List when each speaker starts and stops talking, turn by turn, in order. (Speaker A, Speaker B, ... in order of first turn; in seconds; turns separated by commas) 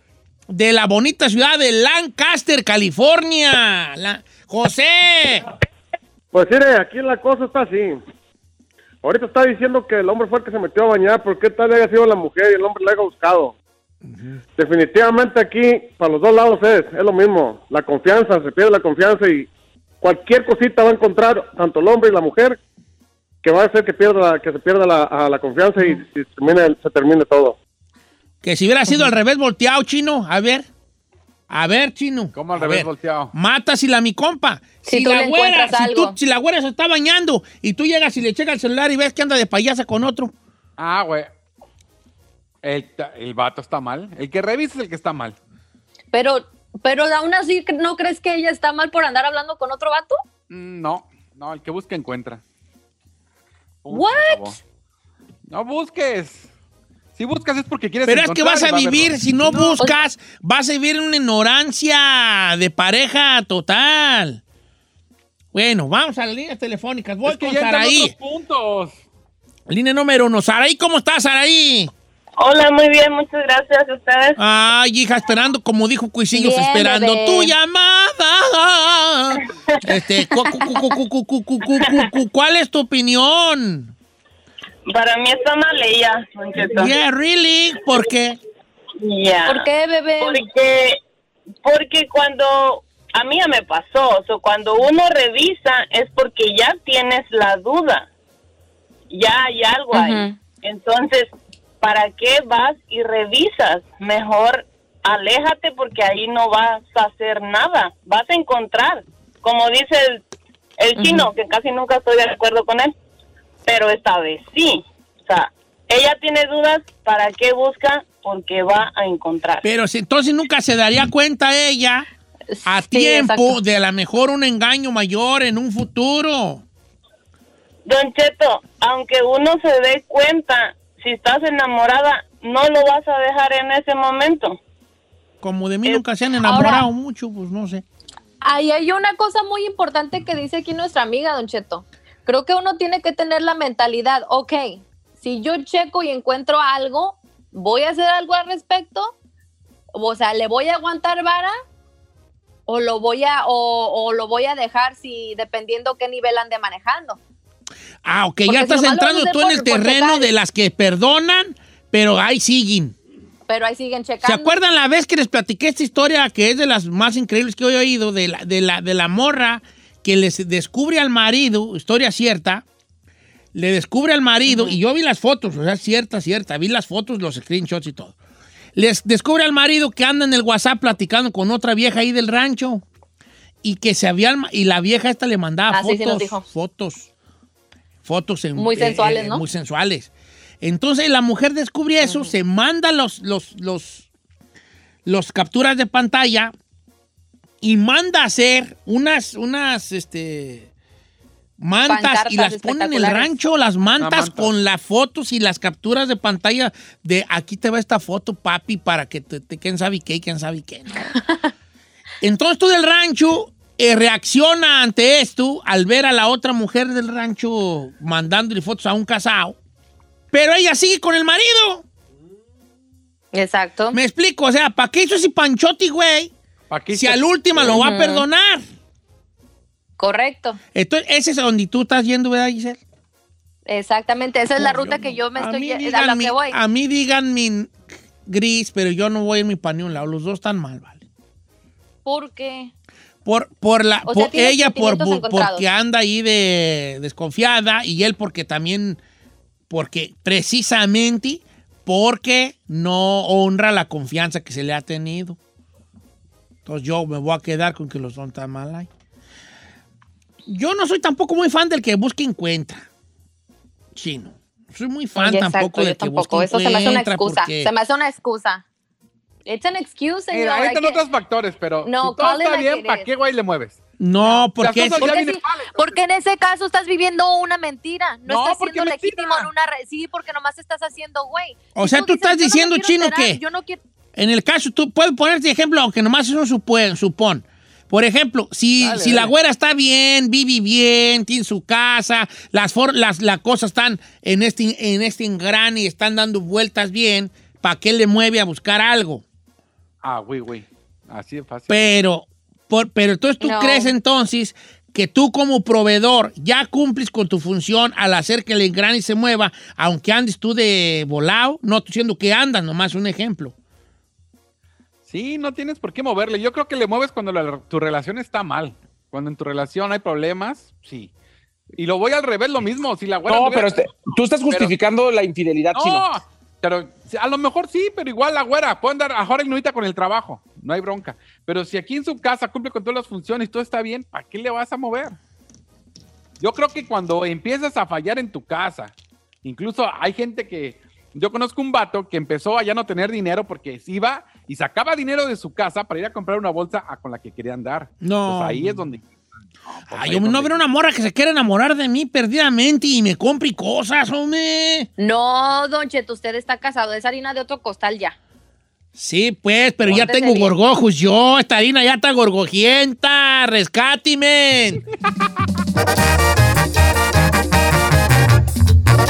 Speaker A: 0.5-5.5, Speaker B: 6.3-8.0, Speaker B: 9.0-13.5, Speaker A: 14.1-14.4, Speaker B: 14.6-19.5, Speaker B: 20.0-22.6, Speaker B: 23.4-27.6, Speaker A: 28.4-30.7, Speaker A: 31.5-40.3, Speaker C: 32.3-33.3, Speaker D: 34.8-36.1, Speaker C: 40.8-41.3, Speaker C: 42.6-45.4, Speaker D: 46.1-50.1, Speaker C: 50.5-52.4, Speaker C: 53.8-54.6, Speaker D: 53.9-54.5, Speaker C: 55.5-56.5, Speaker C: 57.1-59.8, Speaker A: 58.0-64.4, Speaker A: 65.5-68.1, Speaker C: 67.2-69.0, Speaker A: 69.7-71.9, Speaker E: 72.4-74.4, Speaker A: 74.4-83.9, Speaker D: 76.3-77.5, Speaker E: 84.9-87.0, Speaker A: 86.7-88.4, Speaker E: 89.0-91.0, Speaker D: 89.5-90.4, Speaker E: 91.6-98.1, Speaker E: 99.1-110.2, Speaker D: 99.9-100.3, Speaker E: 110.8-112.9, Speaker D: 111.0-111.3, Speaker E: 113.7-119.6, Speaker A: 119.6-122.1, Speaker D: 122.5-123.6, Speaker A: 122.6-126.6, Speaker E: 127.8-134.6, Speaker A: 135.4-137.8, Speaker D: 136.4-136.9, Speaker D: 138.4-149.1, Speaker D: 149.9-151.5, Speaker D: 152.7-157.2, Speaker A: 158.0-162.9, Speaker D: 158.5-160.3, Speaker D: 163.5-164.5, Speaker A: 164.2-172.6, Speaker A: 173.5-178.2, Speaker D: 174.5-174.8, Speaker A: 178.7-182.8, Speaker A: 183.6-187.1, Speaker D: 185.7-186.4, Speaker A: 188.0-194.1, Speaker D: 188.6-189.4, Speaker D: 192.0-192.3, Speaker A: 195.1-196.5, Speaker A: 197.6-200.7, Speaker A: 201.6-211.2, Speaker D: 201.8-203.3, Speaker C: 204.0-204.5, Speaker A: 212.2-219.6, Speaker A: 220.3-221.8, Speaker D: 223.3-224.0, Speaker A: 223.9-226.3, Speaker C: 226.7-227.8, Speaker A: 226.9-228.6, Speaker D: 227.7-228.2, Speaker D: 230.0-230.6, Speaker A: 230.7-232.8, Speaker D: 233.7-236.6, Speaker A: 234.6-241.0, Speaker D: 242.0-242.7, Speaker A: 243.2-249.0, Speaker D: 244.1-245.7, Speaker A: 249.7-255.4, Speaker A: 256.6-258.9, Speaker A: 260.5-262.9, Speaker A: 263.9-267.7, Speaker D: 265.1-268.6, Speaker D: 269.4-271.0, Speaker C: 270.3-273.8, Speaker D: 271.8-273.1, Speaker A: 274.0-275.1, Speaker D: 274.2-283.8, Speaker C: 274.6-275.9, Speaker C: 278.2-279.5, Speaker A: 281.8-283.4, Speaker A: 284.1-299.2, Speaker C: 288.8-289.3, Speaker C: 300.0-301.7, Speaker A: 301.7-313.5, Speaker D: 303.4-303.9, Speaker C: 315.1-321.1, Speaker C: 321.8-323.7, Speaker F: 323.3-326.1, Speaker C: 325.7-335.2, Speaker C: 336.4-338.9, Speaker C: 339.4-349.1, Speaker A: 348.0-348.9, Speaker C: 349.6-350.6, Speaker A: 349.9-354.9, Speaker D: 355.0-358.2, Speaker A: 358.9-364.8, Speaker D: 359.8-360.5